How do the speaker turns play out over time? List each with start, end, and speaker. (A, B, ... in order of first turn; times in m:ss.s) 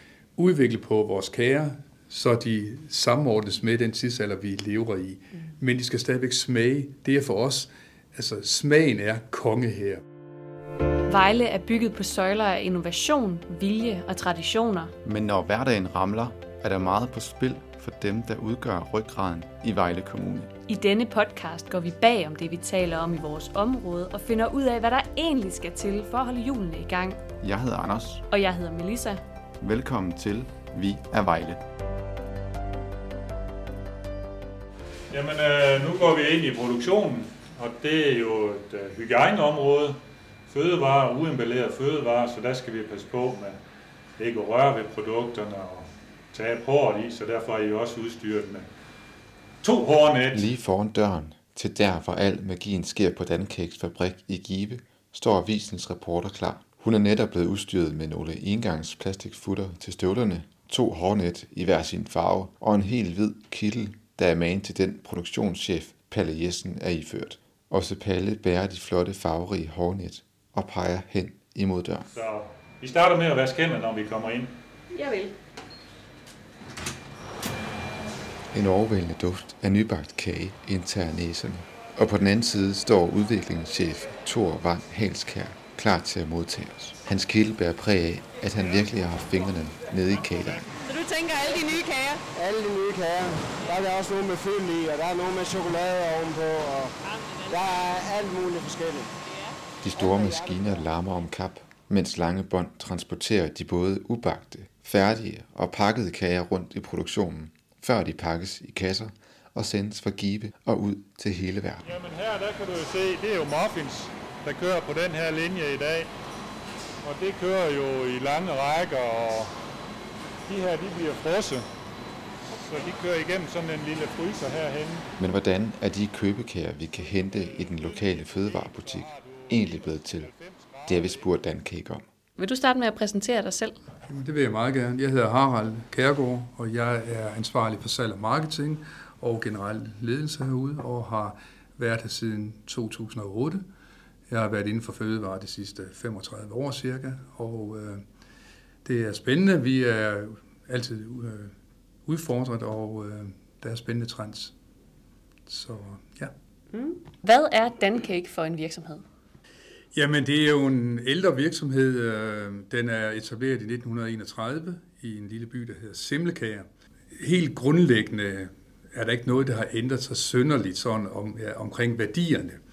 0:00.4-0:10.0 A
0:11.1-0:14.9 B
0:15.0-0:20.5 C
0:20.7-0:27.2 B
0:27.4-0:28.2 C
0:28.3-0:29.2 B
0:29.6-0:31.6 C
0:35.1-0:40.0 D
0:40.5-0:43.6 D
0:44.2-0:48.7 D
0:49.6-0:50.5 D
0:50.3-1:12.1 C
1:12.1-1:14.5 D
1:14.9-1:15.3 B
1:18.5-1:30.6 C
1:30.7-1:32.2 B
1:32.3-1:39.1 E
1:37.0-1:37.7 B
1:39.2-1:39.6 B
1:39.8-1:51.9 C
1:39.9-1:40.9 E
1:51.8-1:56.1 D
1:57.0-1:59.5 D
2:00.5-2:01.7 D
2:02.5-2:05.1 D
2:05.2-2:10.3 C
2:07.1-2:11.3 D
2:10.9-2:12.0 C
2:12.4-2:13.8 B
2:14.1-2:23.6 A
2:24.3-2:28.0 A
2:28.8-2:31.5 A
2:32.1-2:34.5 A
2:35.5-2:36.3 A
2:36.7-2:39.0 B
2:39.9-2:52.6 A